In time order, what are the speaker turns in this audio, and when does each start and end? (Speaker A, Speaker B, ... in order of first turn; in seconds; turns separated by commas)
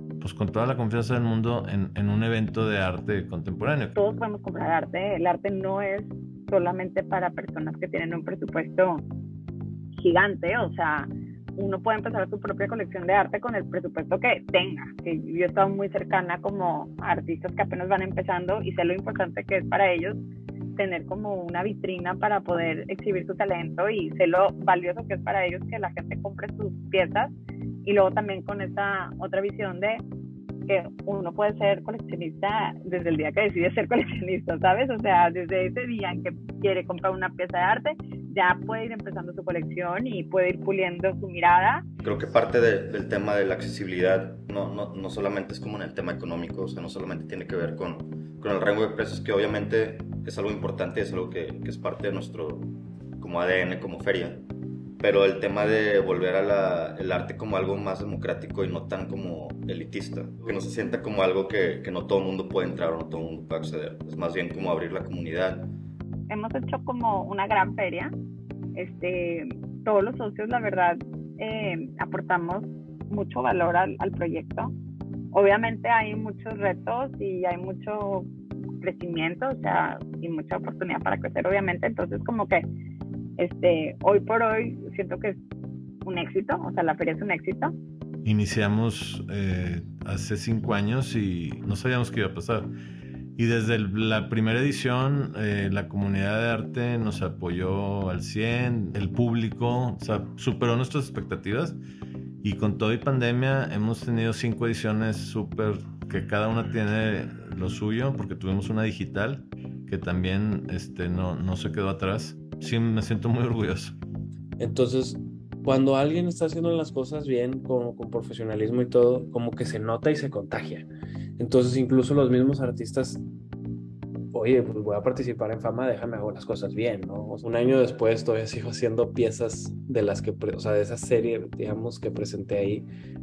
Speaker A: 0.2-4.0, Speaker B: 3.9-9.0, Speaker B: 10.0-20.2, Speaker B: 20.8-27.3, Speaker B: 27.8-30.0, Speaker B: 30.7-41.8, Speaker C: 42.0-54.4, Speaker C: 55.0-65.7, Speaker B: 66.3-68.1, Speaker B: 68.8-74.7, Speaker B: 75.3-78.3, Speaker B: 78.8-82.7, Speaker B: 83.4-85.4, Speaker B: 86.0-87.7, Speaker A: 88.2-92.7, Speaker A: 93.4-101.8, Speaker A: 102.4-114.0, Speaker D: 114.6-123.2, Speaker D: 124.3-132.9